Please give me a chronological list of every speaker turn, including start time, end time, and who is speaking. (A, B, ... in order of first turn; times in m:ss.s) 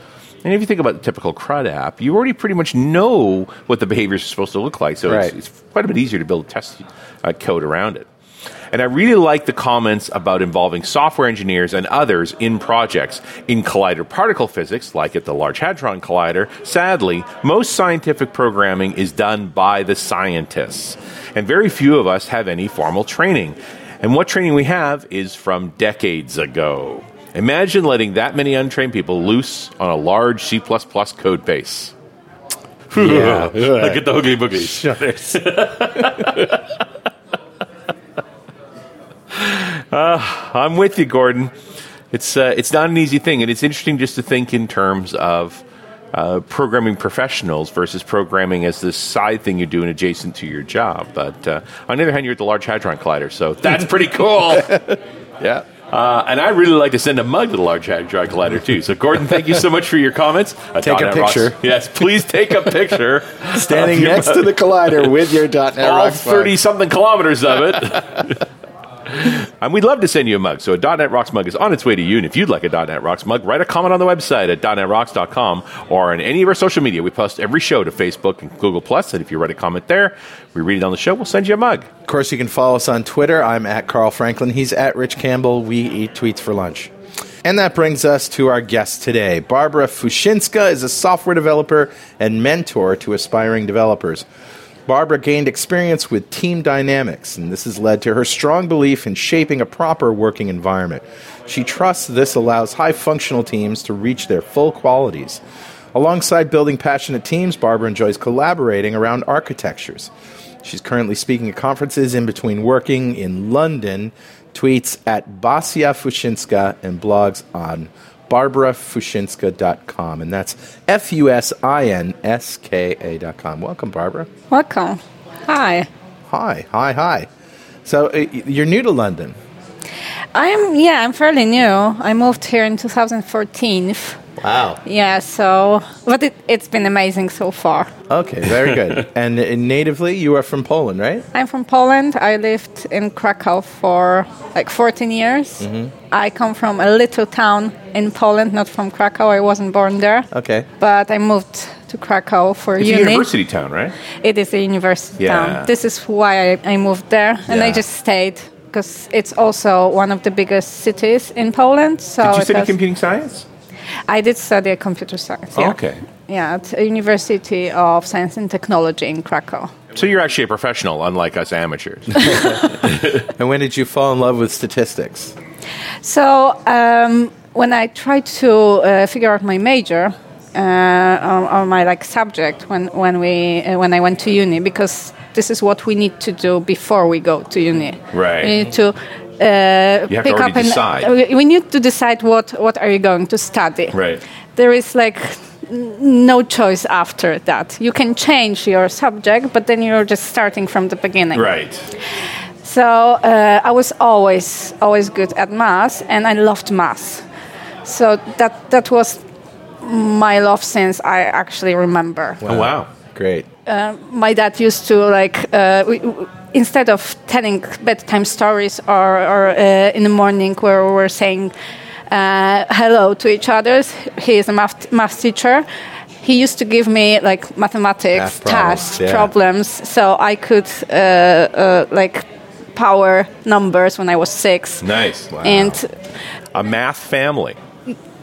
0:00.4-0:08.1 A
0:05.0-0:05.3 B
0:08.7-0:31.9 A
0:32.9-0:36.8 A
0:32.9-0:35.4 B
0:39.3-0:41.5 A
0:42.1-0:54.9 A
0:54.7-0:55.6 B
0:55.9-1:04.5 A
1:00.8-1:01.6 B
1:03.5-1:06.6 B
1:05.8-1:08.4 A
1:09.1-1:21.9 A
1:22.0-1:26.9 B
1:27.4-1:34.2 B
1:34.9-1:45.4 B
1:45.9-1:50.1 B
1:50.6-2:04.3 B
2:04.5-2:05.9 C
2:06.3-2:07.3 B
2:07.8-2:09.4 B
2:10.3-2:14.2 C
2:14.4-2:14.8 B
2:14.8-2:17.9 C
2:18.1-2:21.2 B
2:21.3-2:30.3 C
2:25.6-2:25.9 B
2:30.3-2:30.7 B
2:30.8-2:33.3 C
2:32.8-2:34.0 A
2:34.2-2:42.8 C
2:35.2-2:35.7 A
2:37.5-2:37.8 A
2:42.2-2:43.4 A
2:44.1-2:49.7 C
2:45.5-2:46.0 A
2:49.9-2:53.2 A
2:52.3-2:52.7 B
2:53.2-2:55.3 B
2:56.0-3:14.0 C
3:08.1-3:08.6 A
3:10.1-3:11.1 A
3:13.9-3:14.2 A
3:14.6-3:21.5 C
3:21.3-3:21.8 A
3:22.6-3:27.2 C
3:27.8-3:29.2 C
3:29.8-3:32.4 C
3:32.4-3:33.5 B
3:32.4-3:32.9 A
3:33.6-3:41.5 C
3:42.1-3:45.7 C
3:46.2-3:54.9 C
3:48.1-3:49.3 B
3:54.8-3:55.6 A
3:55.3-3:55.8 B
3:55.4-3:55.9 C
3:56.5-3:57.6 A